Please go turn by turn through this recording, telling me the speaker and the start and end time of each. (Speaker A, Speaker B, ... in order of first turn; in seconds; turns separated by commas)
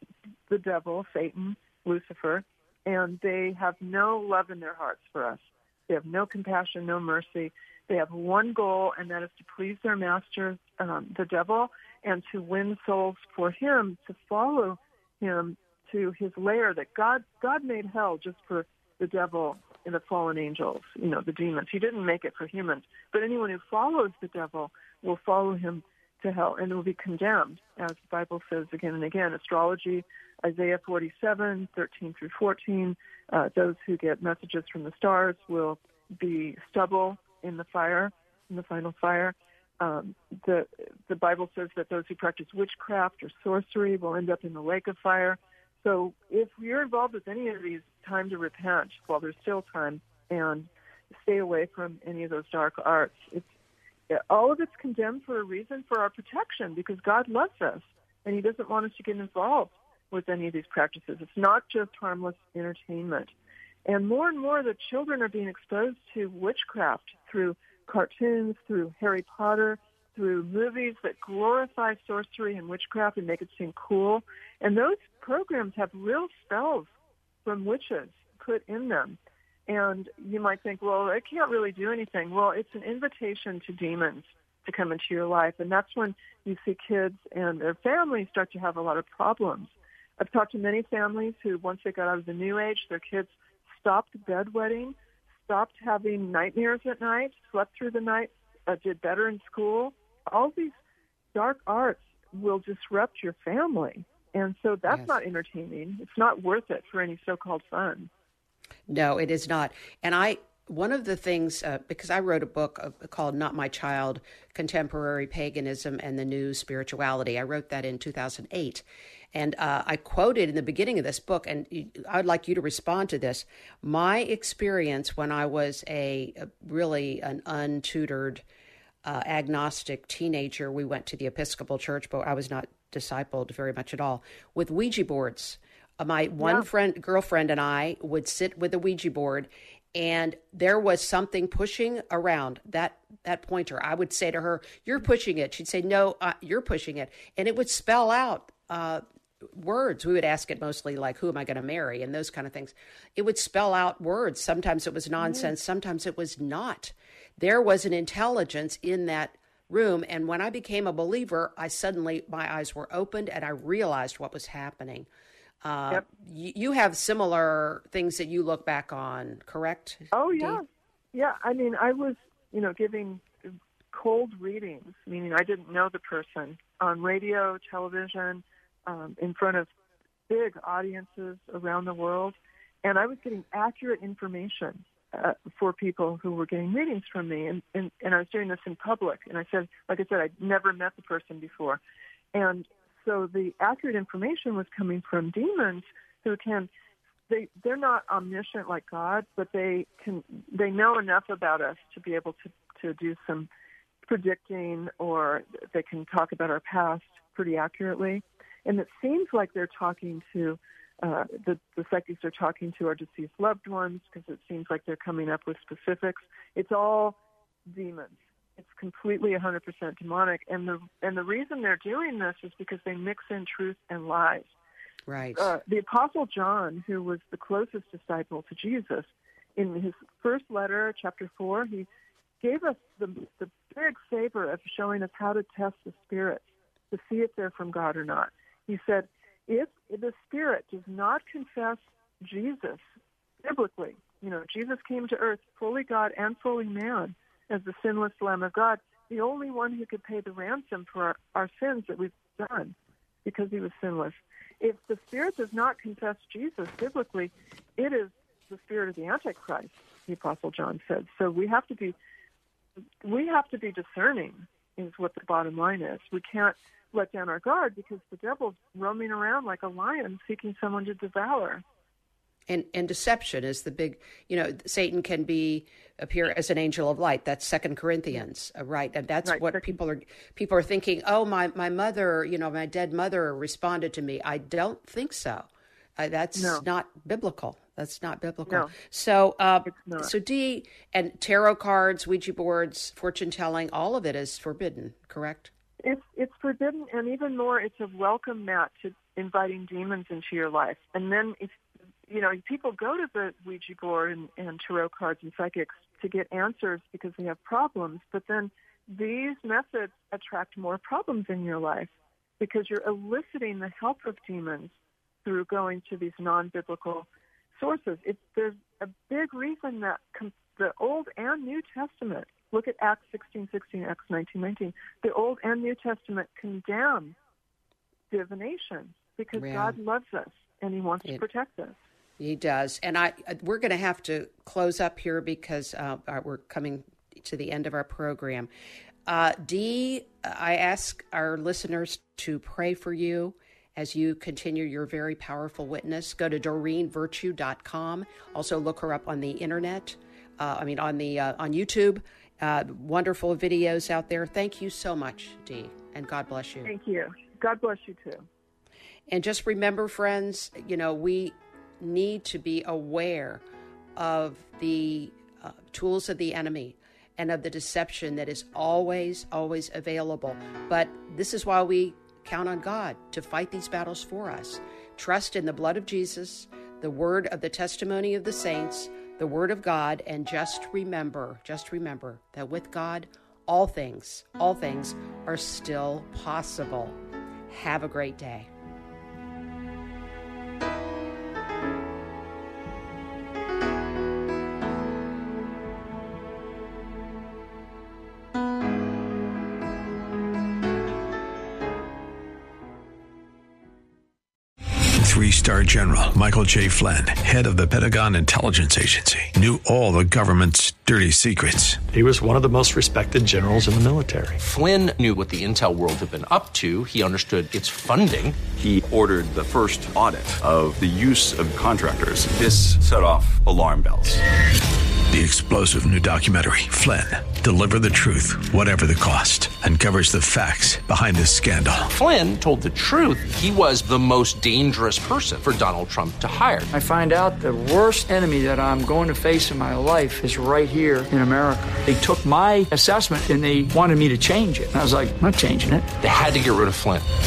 Speaker A: 0.5-53.6, Speaker A: 54.1-63.3, Speaker A: 63.9-76.9, Speaker A: 77.5-100.8, Speaker A: 101.3-108.1, Speaker B: 104.9-105.2, Speaker B: 108.9-128.4, Speaker B: 129.0-165.1, Speaker A: 136.4-136.7, Speaker B: 165.6-170.6, Speaker A: 170.1-179.7, Speaker A: 180.3-191.8, Speaker A: 192.3-196.7, Speaker A: 197.3-203.5, Speaker A: 204.1-217.2, Speaker A: 217.7-224.5, Speaker B: 225.1-225.6, Speaker A: 225.3-231.9, Speaker A: 232.4-242.8, Speaker A: 243.4-261.9, Speaker A: 263.0-271.6, Speaker B: 272.5-295.5, Speaker A: 279.2-279.7, Speaker A: 286.4-286.6, Speaker A: 288.5-288.7, Speaker A: 289.6-290.1, Speaker A: 295.8-327.1, Speaker A: 328.1-331.8, Speaker B: 329.4-329.8, Speaker B: 332.2-338.5, Speaker B: 339.1-356.7, Speaker A: 356.6-358.3, Speaker B: 359.1-363.4, Speaker B: 364.0-388.5, Speaker C: 405.0-411.9, Speaker D: 411.9-414.4, Speaker E: 414.4-418.4, Speaker F: 418.6-424.2, Speaker C: 425.1-431.9, Speaker E: 431.9-436.7, Speaker G: 436.7-445.9, Speaker E: 446.0-447.1